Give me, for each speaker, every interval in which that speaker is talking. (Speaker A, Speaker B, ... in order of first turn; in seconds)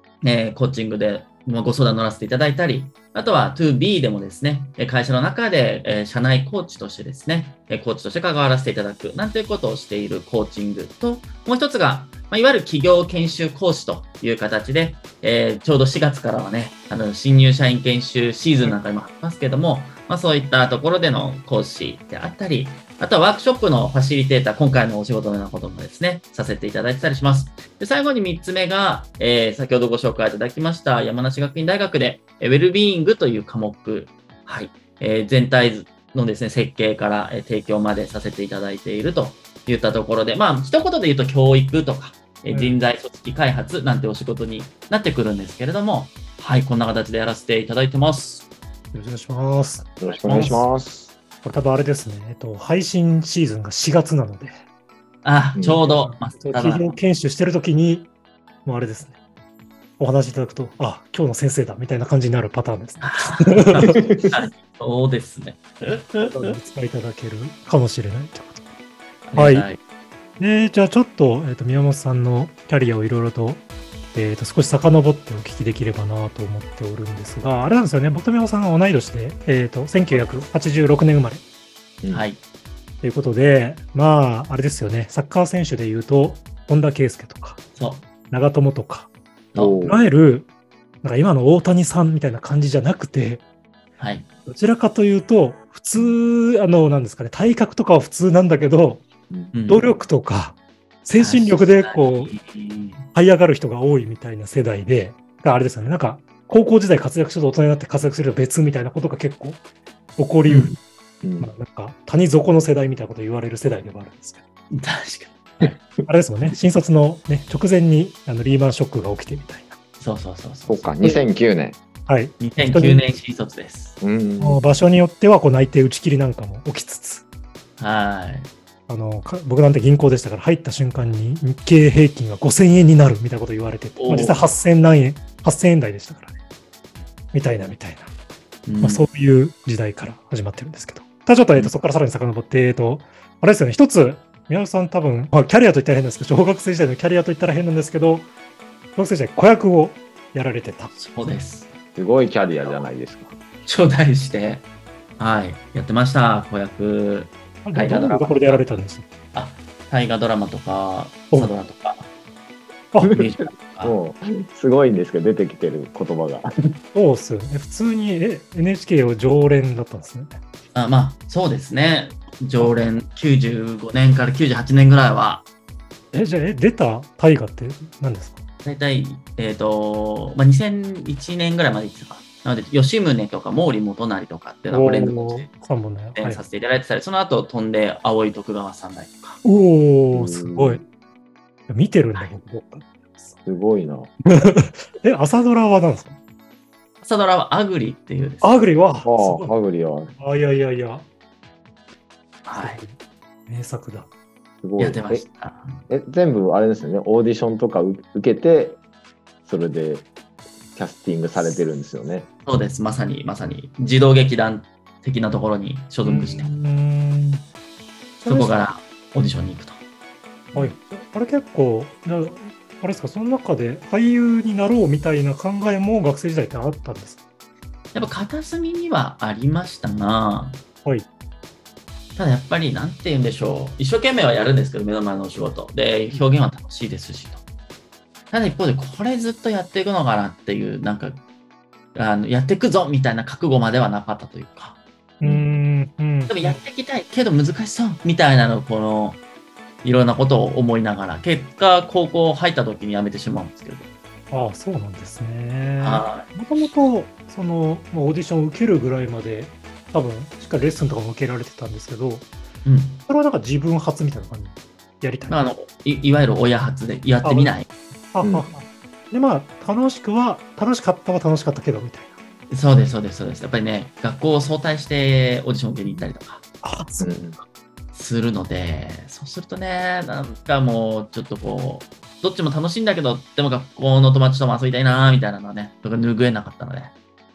Speaker A: 0.2-48.5, 50.1-50.7, 55.2-56.9, 63.0-66.5, 69.2-69.8, 82.1-82.4, 87.8-88.1, 89.5-89.8, 94.0-94.3, 99.5-99.9, 101.2-103.1, 110.5-110.8, 114.7-115.8, 120.0-120.9, 122.4-124.0, 127.8-128.5, 134.0-134.5, 138.7-139.1, 150.9-151.7, 153.6-154.6, 155.2-158.6, 159.3-162.1, 163.1-164.0, 170.7-175.4, 178.6-185.5, 186.1-189.4, 197.0-198.7, 202.4-202.8, 204.8-205.8, 212.4-216.5, 218.3-219.8, 227.9-230.6, 232.2-237.4, 238.3-241.2, 241.9-244.8, 246.3-249.2, 249.8-253.9, 255.8-256.4, 262.6-263.1, 265.3-267.7, 272.5-276.4, 277.9-286.9
Speaker B: 42.5-42.8, 48.9-50.7, 51.4-54.5, 55.8-58.1, 58.6-59.2, 60.0-64.1, 66.2-68.7, 69.4-69.7, 70.4-81.4, 83.0-87.6, 88.3-89.1, 89.8-90.5, 91.0-93.4, 94.5-99.0, 99.7-102.3, 103.1-109.6, 110.2-110.8, 111.4-114.4, 116.1-119.8, 122.1-123.1, 124.4-127.2, 128.9-136.4, 137.3-138.1, 138.8-148.3, 148.9-150.9, 157.6-159.1, 166.9-170.4, 176.1-178.4, 184.7-186.4, 189.4-190.8, 191.7-193.4, 194.3-196.1, 198.4-199.5, 200.2-201.1, 202.6-203.0, 203.5-204.1, 216.1-217.4, 218.2-218.6, 220.5-227.2, 245.2-246.6, 254.3-262.3, 263.1-265.4, 267.2-267.5, 268.1-272.1, 276.6-277.1
Speaker C: 50.0-51.1, 55.6-55.8, 89.5-90.0, 111.2-111.5, 120.7-121.8, 124.0-124.7, 151.9-153.4, 163.1-166.4, 190.1-190.8, 193.4-194.1, 199.1-200.1, 204.6-205.2, 205.9-208.8, 209.4-210.1, 210.8-212.3, 268.2-268.5, 277.0-277.4